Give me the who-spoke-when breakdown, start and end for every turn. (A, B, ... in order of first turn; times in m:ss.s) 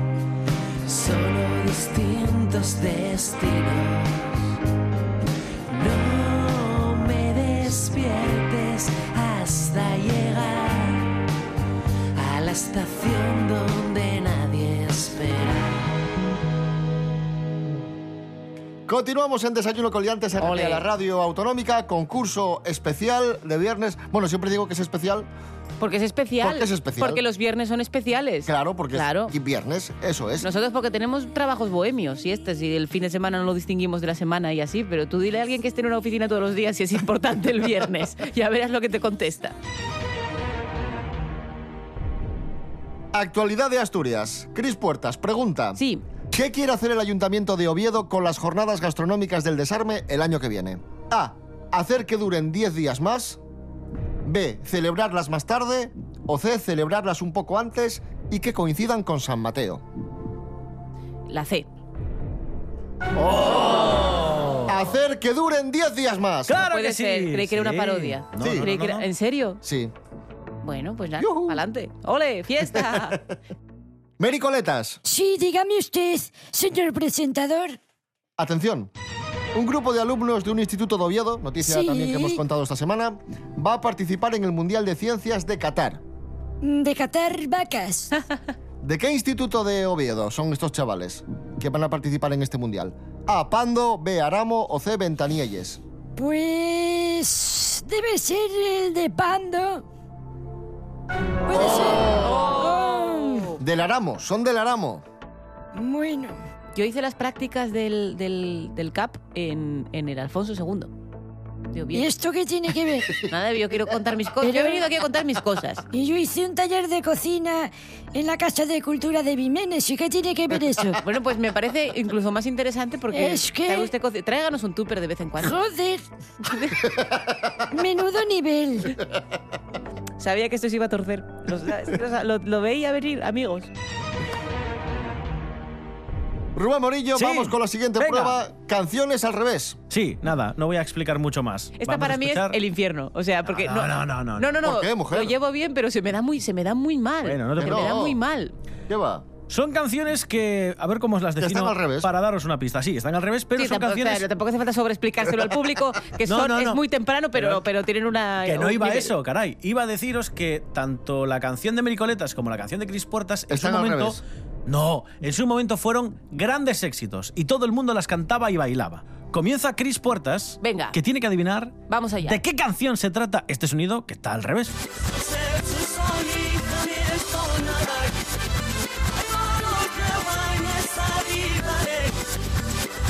0:00.8-0:04.4 A
0:05.7-0:11.1 A
0:12.2-0:15.9 A
0:18.9-0:25.3 B
0:20.4-0:20.8 C
0:25.8-0:29.3 C
0:26.4-0:27.2 B
0:28.5-0:30.5 B
0:30.4-0:39.6 C
0:43.1-0:45.8 B
0:45.8-0:46.0 C
0:46.3-0:53.4 B
0:54.2-0:59.8 B
1:01.3-1:01.7 C
1:03.2-1:06.6 B
1:06.5-1:09.1 D
1:06.7-1:09.6 C
1:08.4-1:08.7 B
1:09.6-1:09.9 B
1:10.6-1:13.2 C
1:11.2-1:11.6 B
1:14.2-1:15.0 B
1:15.0-1:17.8 E
1:18.4-1:18.9 B
1:19.5-1:26.0 B
1:21.6-1:22.4 E
1:26.6-1:28.1 E
1:28.8-1:35.8 B
1:36.2-1:39.8 E
1:41.5-1:43.6 E
1:41.5-1:42.6 B
1:42.3-1:43.5 C
1:43.6-1:45.0 B
1:45.7-1:46.4 E
1:46.8-1:50.9 C
1:51.7-1:52.1 C
1:51.9-1:53.3 E
1:53.2-1:55.8 C
1:54.4-1:54.9 E
1:55.9-2:01.0 E
2:01.0-2:05.6 C
2:03.1-2:03.9 E
2:05.4-2:06.0 E
2:06.4-2:06.8 C
2:07.7-2:09.0 E
2:10.2-2:13.7 C
2:16.6-2:19.8 B
2:17.2-2:18.4 D
2:19.9-2:22.6 D
2:21.8-2:28.5 C
2:23.4-2:24.5 D
2:24.6-2:25.3 B
2:27.2-2:28.0 D
2:27.6-2:28.2 B
2:28.9-2:29.3 B
2:29.5-2:34.3 D
2:31.4-2:32.1 B
2:33.6-2:39.1 C
2:36.2-2:36.8 D
2:37.4-2:37.6 D
2:38.4-2:54.8 D
2:43.5-2:44.2 B
2:50.6-2:51.0 C
2:51.9-2:52.4 C
2:55.5-2:58.0 A
2:59.5-3:02.0 A